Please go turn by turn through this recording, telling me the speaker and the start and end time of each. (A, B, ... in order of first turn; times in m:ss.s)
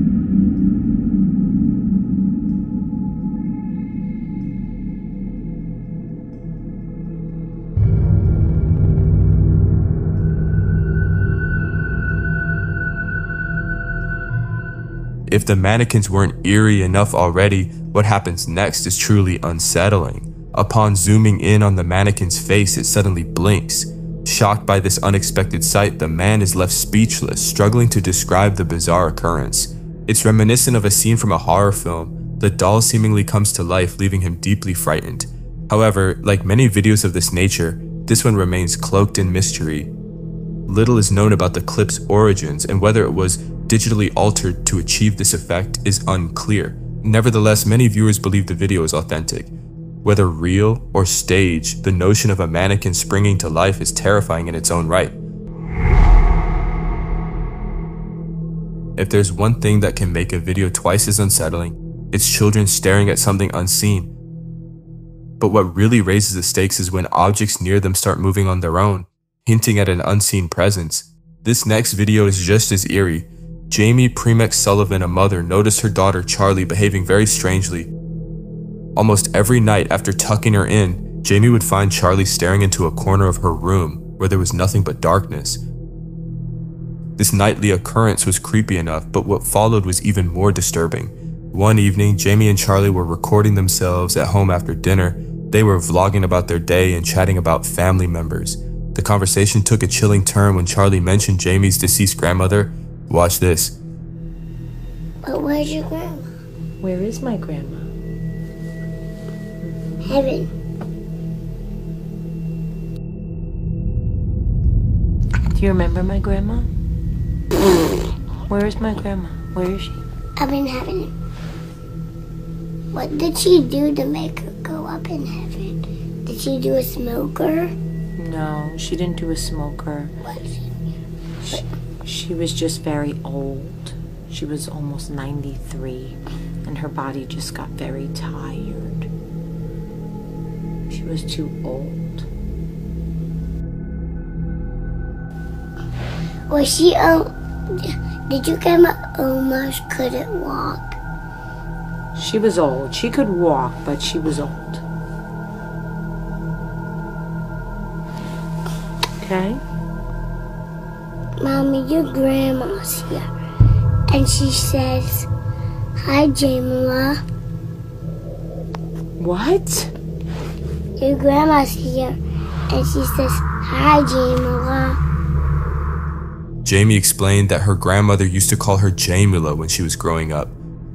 0:15.3-0:39.9 A
0:40.7-0:49.5 A
0:50.0-0:55.2 A
0:59.0-1:04.1 A
1:05.4-1:17.9 A
1:19.0-1:25.6 A
1:27.2-1:43.8 A
1:45.2-1:46.2 B
1:46.8-1:47.9 C
1:49.6-1:50.2 C
1:50.0-1:50.5 B
1:55.5-1:56.7 C
1:58.5-2:00.0 C
2:00.4-2:01.1 B
2:02.9-2:07.7 B
2:08.2-2:10.1 C
2:10.2-2:10.6 B
2:11.4-2:19.1 C
2:20.9-2:22.3 C
2:26.5-2:31.0 B
2:32.1-2:34.8 C
2:39.2-2:39.6 C
2:41.4-2:43.3 B
2:44.1-2:45.3 B
2:46.0-2:47.2 B
2:49.2-2:49.9 C
2:51.0-2:52.2 B
2:52.7-2:55.0 B
2:56.6-3:00.5 A